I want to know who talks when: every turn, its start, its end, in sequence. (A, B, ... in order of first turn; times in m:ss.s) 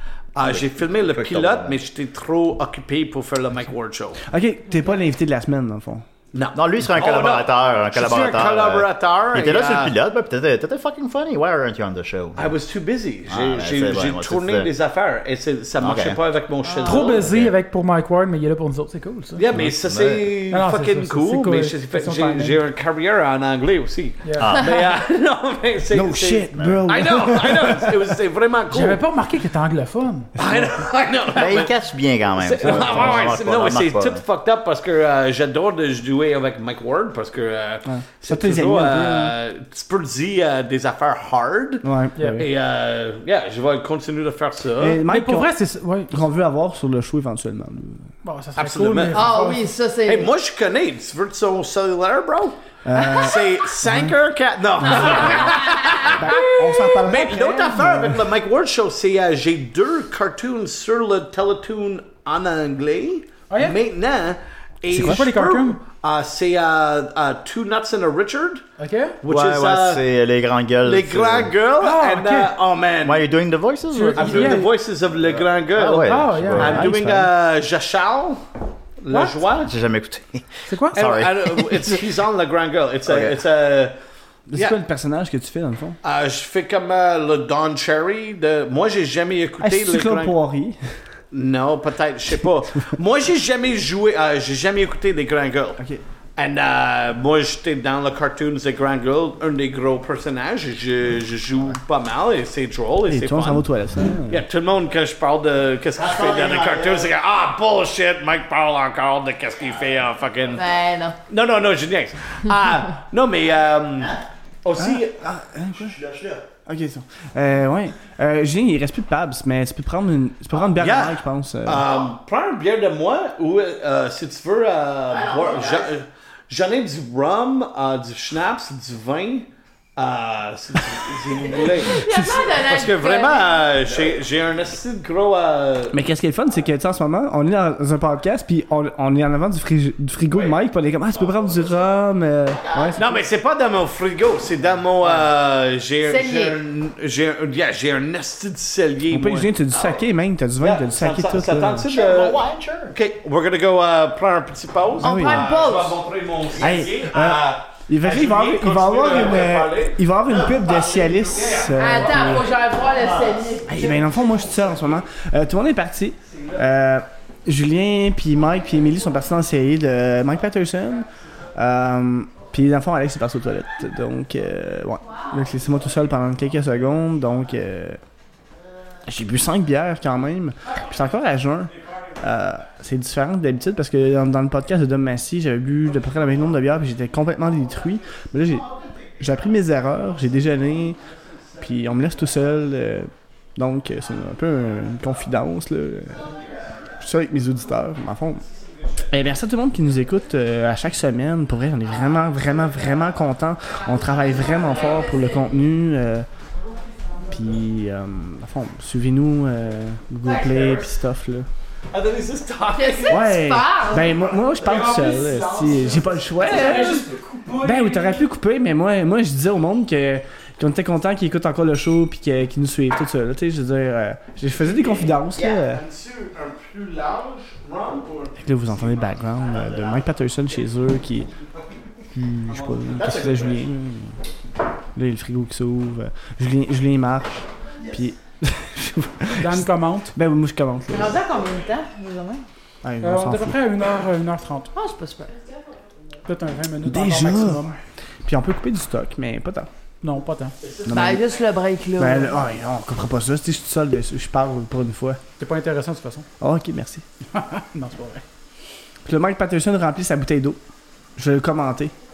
0:00.3-0:04.2 A
0:00.4-0:01.8 B
0:04.3-0:06.0 C
0:06.3-0:09.9 A
0:06.5-0:12.5 B
0:12.4-0:17.3 A
0:13.3-0:14.7 B
0:15.8-0:16.2 B
0:16.8-0:19.4 D
0:17.0-0:17.5 B
0:19.4-0:29.0 A
0:19.5-0:20.3 B
0:20.5-0:22.6 D
0:24.4-0:24.7 B
0:25.9-0:28.0 C
0:26.5-0:26.8 B
0:28.7-0:30.3 D
0:30.4-0:31.7 A
0:31.3-0:34.2 B
0:32.4-0:41.8 A
0:32.6-0:33.2 C
0:37.8-0:39.3 C
0:41.8-0:42.5 C
0:42.2-0:42.4 D
0:42.4-0:45.0 A
0:44.8-0:45.5 C
0:45.1-0:46.1 D
0:46.1-0:48.1 C
0:48.2-0:49.7 D
0:48.6-0:49.2 A
0:49.1-0:50.3 E
0:50.0-1:08.6 A
0:52.8-0:54.1 C
0:54.8-0:58.3 C
1:03.5-1:03.8 D
1:04.9-1:05.3 C
1:04.9-1:05.8 D
1:08.8-1:09.2 D
1:09.2-1:10.0 A
1:09.3-1:11.5 B
1:10.8-1:13.3 A
1:11.8-1:12.5 D
1:13.0-1:14.7 B
1:13.9-1:14.7 D
1:14.2-1:18.4 A
1:15.2-1:16.9 B
1:16.0-1:16.8 D
1:16.6-1:17.3 C
1:19.0-1:19.7 A
1:19.1-1:19.4 D
1:19.6-1:22.0 B
1:20.7-1:21.0 D
1:20.9-1:24.0 A
1:23.0-1:23.4 B
1:24.5-1:26.0 C
1:26.0-1:30.3 A
1:29.6-1:31.0 C
1:31.3-1:35.8 A
1:35.8-1:36.0 C
1:36.4-1:43.6 A
1:43.1-1:44.4 C
1:44.3-1:50.6 A
1:46.0-1:47.1 B
1:50.5-1:51.2 E
1:51.3-1:55.2 A
1:54.8-1:56.0 C
1:55.8-1:56.4 B
1:56.6-2:01.8 C
2:00.7-2:16.0 A
2:05.1-2:05.8 B
2:11.4-2:13.6 E
2:15.9-2:23.0 C
2:20.3-2:20.6 A
2:22.6-2:23.1 B
2:22.9-2:30.0 A
2:26.0-2:26.6 E
2:29.1-2:31.8 C
2:30.6-2:42.5 A
2:31.9-2:32.9 B
2:35.0-2:36.0 E
2:35.0-2:35.5 C
2:36.6-2:42.5 C
2:41.7-2:44.1 E
2:42.9-2:43.4 B
2:43.7-2:58.0 C
2:46.2-2:46.6 A
2:55.0-2:55.4 E
2:59.0-3:11.0 C
3:01.7-3:02.2 A
3:08.5-3:09.3 B
3:10.9-3:11.7 A
3:11.6-3:16.2 C
3:16.2-3:16.9 B
3:17.0-3:18.4 C
3:18.4-3:19.1 A
3:19.1-3:26.3 C
3:23.8-3:25.5 E
3:27.3-3:31.5 C
3:30.3-3:30.7 E
3:30.3-3:30.9 A
3:31.9-3:33.3 A
3:32.7-3:34.1 E
3:33.1-3:37.0 C
3:34.0-3:37.1 A
3:36.4-3:38.2 D
3:37.6-3:45.8 C
3:44.5-3:49.2 A
3:45.4-3:45.6 B
3:48.4-3:51.3 C
3:49.5-3:50.0 B
3:52.1-3:54.2 C
3:52.5-3:53.7 A
3:53.0-3:53.5 B
3:54.9-4:01.2 C
3:59.3-4:00.1 D
4:00.9-4:02.4 E
4:02.8-4:03.6 C
4:03.0-4:04.7 D
4:04.7-4:05.5 E
4:06.2-4:07.7 D
4:06.8-4:07.7 C
4:08.2-4:09.7 C
4:10.0-4:10.5 D
4:10.6-4:11.4 A
4:10.9-4:11.2 C
4:10.9-4:12.4 E
4:12.0-4:15.2 C
4:15.4-4:16.2 D
4:16.4-4:17.0 C
4:17.3-4:18.2 D
4:19.0-4:20.6 C
4:21.2-4:21.9 C